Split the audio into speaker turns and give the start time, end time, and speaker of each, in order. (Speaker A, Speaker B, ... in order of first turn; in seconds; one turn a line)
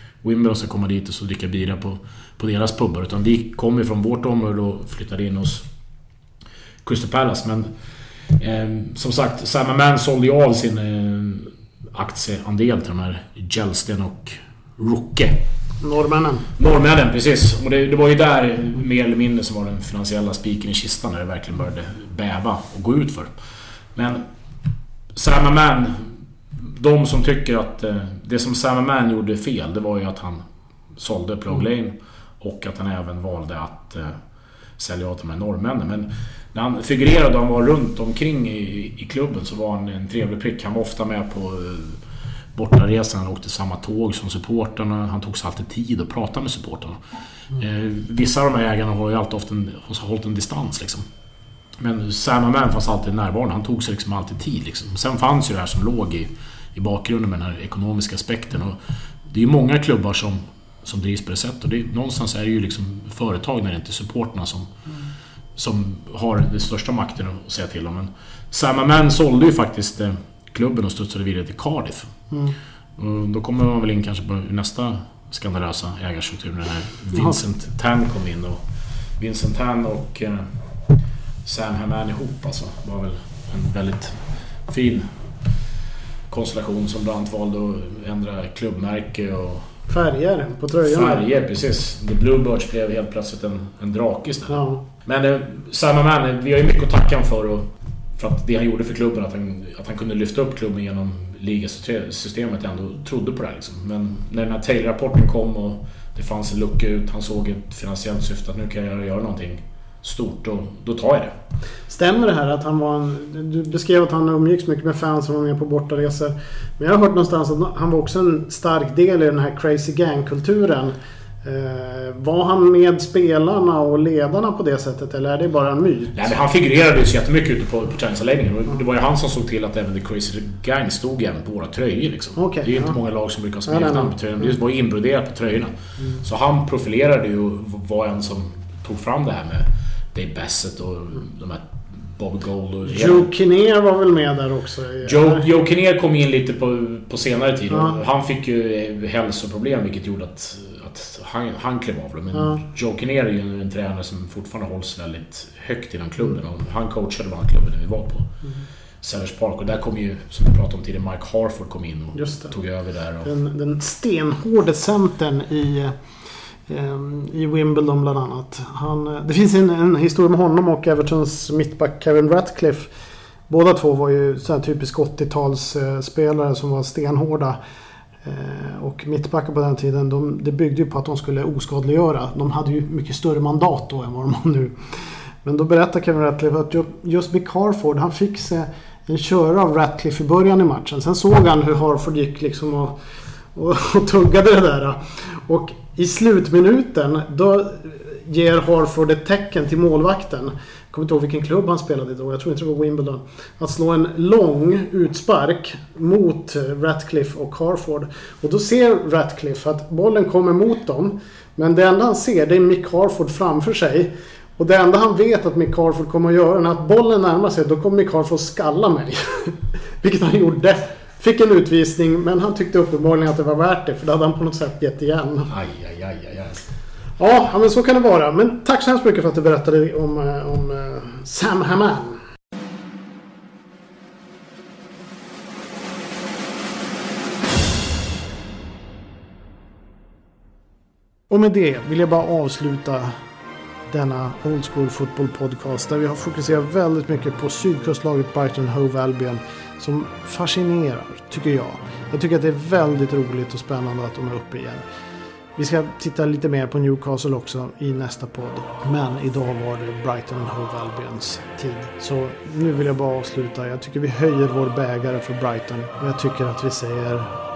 Speaker A: 0.2-5.7
Speaker A: 6.8-7.7
Speaker A: 8.4-15.4
Speaker B: 15.8-16.5
Speaker A: 16.6-23.3
Speaker A: 23.9-24.2
Speaker A: 25.1-30.4
Speaker A: 31.0-34.2
Speaker A: 34.8-42.0
Speaker A: 42.5-47.0
Speaker A: 47.5-51.0
Speaker A: 51.8-64.7
Speaker A: 65.6-72.1
Speaker B: 72.3-72.6
Speaker A: 73.0-78.6
Speaker A: 79.2-80.5
Speaker A: 81.5-85.1
Speaker A: 86.3-89.7
Speaker B: 89.9-91.2
Speaker A: 90.8-111.3
Speaker B: 94.5-94.8
Speaker B: 111.9-126.3
Speaker A: 126.1-143.3
Speaker B: 132.4-133.0
Speaker B: 133.7-134.5
Speaker B: 142.9-145.5
Speaker A: 145.0-158.3
Speaker B: 147.7-148.0
Speaker B: 152.3-152.7
Speaker A: 159.0-163.3
Speaker B: 162.2-162.5
Speaker B: 163.2-166.0
Speaker B: 166.7-172.9
Speaker B: 173.5-177.6
Speaker B: 178.2-184.8
Speaker B: 185.4-193.0
Speaker B: 193.6-225.5
Speaker A: 225.5-226.7
Speaker B: 227.2-232.2
Speaker B: 241.3-243.2
Speaker B: 243.9-254.8
Speaker B: 255.6-267.4